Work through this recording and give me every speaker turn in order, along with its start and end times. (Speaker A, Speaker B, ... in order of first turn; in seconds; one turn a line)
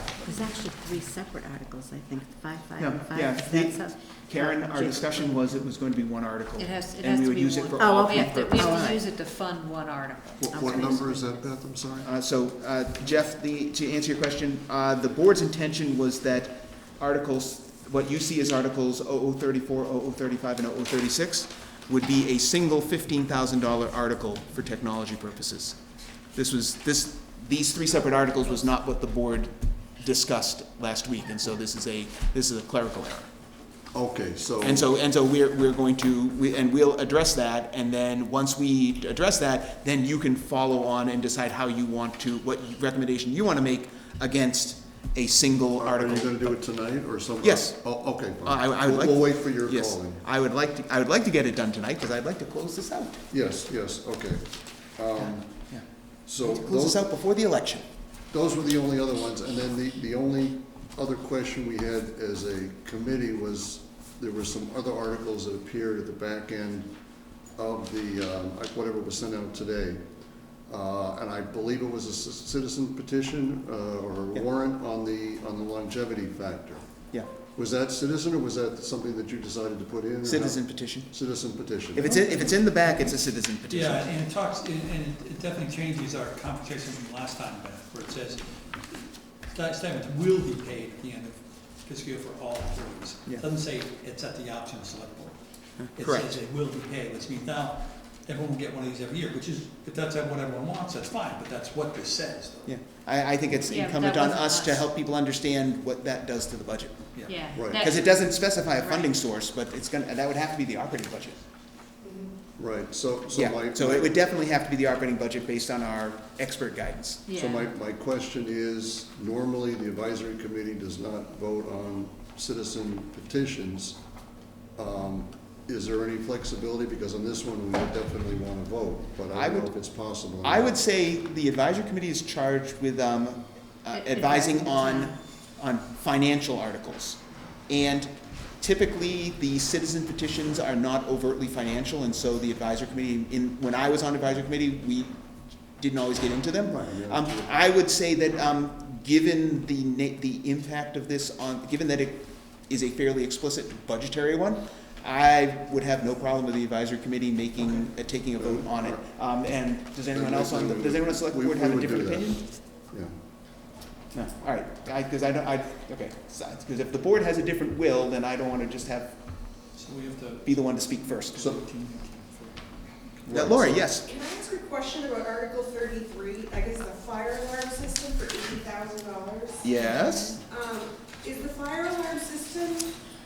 Speaker A: 0.2-5.5
Speaker B: 2.8-8.7
Speaker C: 6.6-10.7
Speaker A: 7.8-9.0
Speaker D: 10.4-12.1
Speaker A: 10.5-11.2
Speaker B: 12.0-25.8
Speaker B: 26.3-33.3
Speaker D: 33.9-34.9
Speaker B: 34.6-46.6
Speaker D: 45.8-50.2
Speaker B: 47.4-53.2
Speaker D: 53.3-55.7
Speaker B: 55.1-57.8
Speaker D: 56.2-57.0
Speaker D: 58.3-67.0
Speaker D: 67.5-70.0
Speaker D: 70.7-76.9
Speaker D: 77.5-82.2
Speaker B: 80.2-81.1
Speaker B: 81.9-84.1
Speaker E: 82.0-102.8
Speaker B: 95.8-96.3
Speaker B: 102.7-107.1
Speaker C: 103.7-104.8
Speaker C: 107.3-109.1
Speaker D: 107.5-107.9
Speaker B: 107.7-111.4
Speaker F: 112.0-112.3
Speaker D: 112.6-114.2
Speaker B: 113.3-117.3
Speaker C: 117.3-117.7
Speaker D: 117.3-124.0
Speaker D: 124.7-130.8
Speaker B: 129.3-129.7
Speaker B: 130.4-145.2
Speaker C: 133.9-135.2
Speaker B: 145.7-162.4
Speaker D: 146.7-147.5
Speaker D: 158.4-159.0
Speaker D: 160.1-163.1
Speaker B: 164.1-169.6
Speaker E: 169.7-173.8
Speaker B: 170.4-171.5
Speaker D: 173.3-173.9
Speaker B: 173.3-174.1
Speaker F: 174.0-179.8
Speaker B: 179.6-180.4
Speaker C: 179.8-180.4
Speaker F: 180.3-182.9